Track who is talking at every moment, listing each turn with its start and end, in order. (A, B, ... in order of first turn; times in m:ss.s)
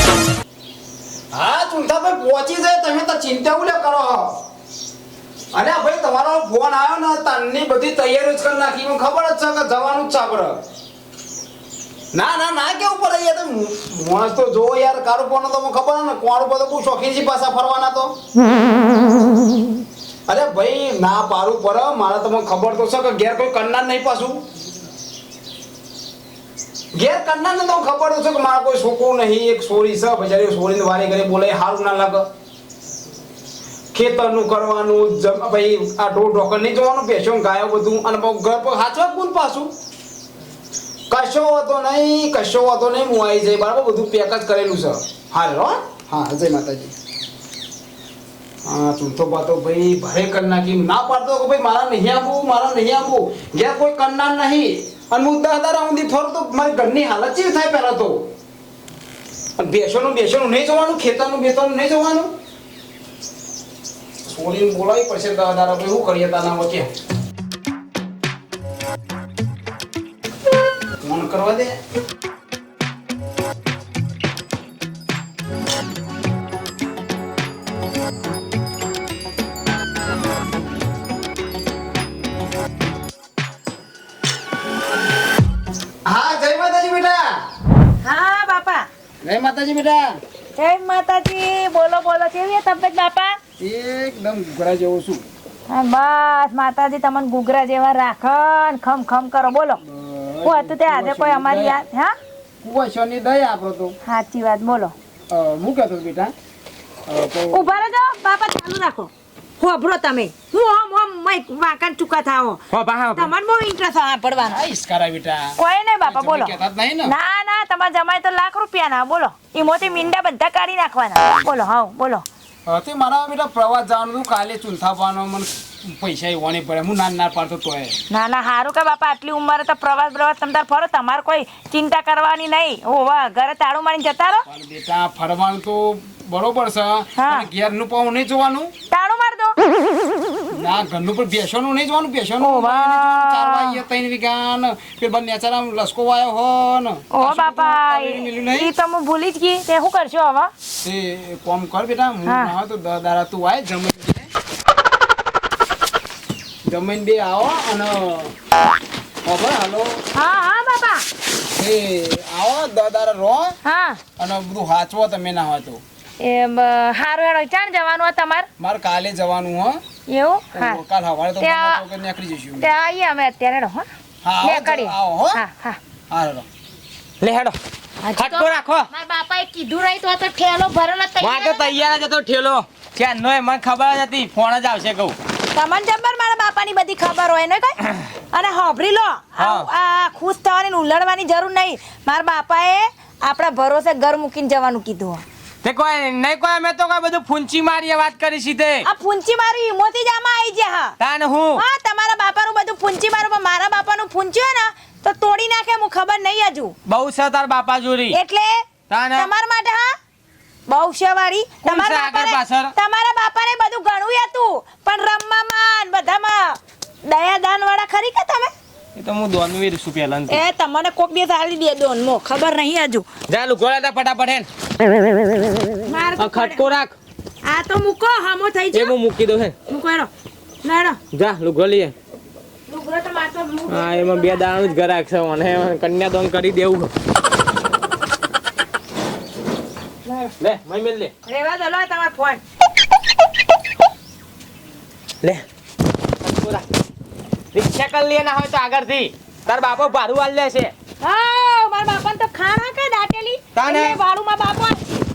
0:01.3-0:04.4 A
0:05.5-0:10.6 A
0:12.1-0:18.1 A
0:20.3-0:24.4 A
0:26.9-0:32.3 A
0:33.9-0:39.7 A
0:41.1-0:46.9 A
0:48.6-0:58.3 A
0:59.6-1:02.3 A
1:04.2-1:06.9 A
1:11.0-1:11.8 A
1:26.0-1:27.4 A
1:28.0-1:28.9 B
1:29.2-1:30.2 A
1:30.6-1:33.4 B
1:33.6-1:35.2 A
1:35.7-1:39.8 B
1:39.8-1:41.8 A
1:40.4-1:42.1 B
1:42.6-1:44.0 A
1:44.0-1:44.9 B
1:45.3-1:46.3 A
1:47.1-1:47.8 A
1:47.5-1:52.6 B
1:52.7-1:53.3 C
1:53.1-1:54.6 B
1:54.4-1:55.6 A
1:55.6-1:56.5 B
1:56.1-1:57.1 A
1:57.0-2:02.2 B
2:02.6-2:07.9 A
2:08.1-2:14.4 B
2:14.5-2:18.7 A
2:17.2-2:17.5 B
2:18.9-2:19.6 B
2:20.5-2:28.7 A
2:22.4-2:23.8 B
2:27.1-2:30.5 B
2:30.8-2:34.3 A
2:32.2-2:32.5 B
2:36.6-2:38.3 A
2:39.2-2:40.0 A
2:40.1-2:41.0 B
2:41.6-2:43.6 A
2:43.6-2:44.0 B
2:44.2-2:45.8 A
2:46.2-2:48.5 B
2:48.6-2:49.8 A
2:50.1-2:50.8 B
2:50.5-2:52.7 A
2:51.4-2:51.8 B
2:52.6-2:53.9 B
2:54.2-2:55.4 A
2:54.4-2:55.8 B
2:56.1-2:56.5 A
2:57.2-2:57.6 C
2:58.0-3:01.8 B
2:58.2-2:58.9 C
3:01.2-3:05.1 C
3:05.5-3:07.8 B
3:08.3-3:15.2 B
3:09.4-3:09.7 C
3:15.6-3:18.9 C
3:18.8-3:20.9 B
3:21.0-3:21.6 C
3:21.6-3:26.7 B
3:26.9-3:28.2 C
3:28.1-3:28.6 B
3:28.9-3:29.3 C
3:29.1-3:29.9 B
3:30.7-3:38.5 B
3:31.6-3:32.7 C
3:39.0-3:40.4 C
3:40.3-3:43.0 B
3:43.3-3:44.5 C
3:45.8-3:46.7 B
3:46.2-3:46.9 C
3:47.4-3:48.9 B
3:48.7-3:49.6 C
3:49.7-3:50.1 B
3:50.6-3:51.0 B
3:51.1-3:51.9 C
3:52.7-3:54.8 B
3:53.7-3:56.9 C
4:00.0-4:00.3 B
4:00.4-4:01.1 C
4:01.2-4:02.4 B
4:06.2-4:06.6 C
4:07.5-4:10.7 C
4:11.0-4:15.0 B
4:13.5-4:14.0 C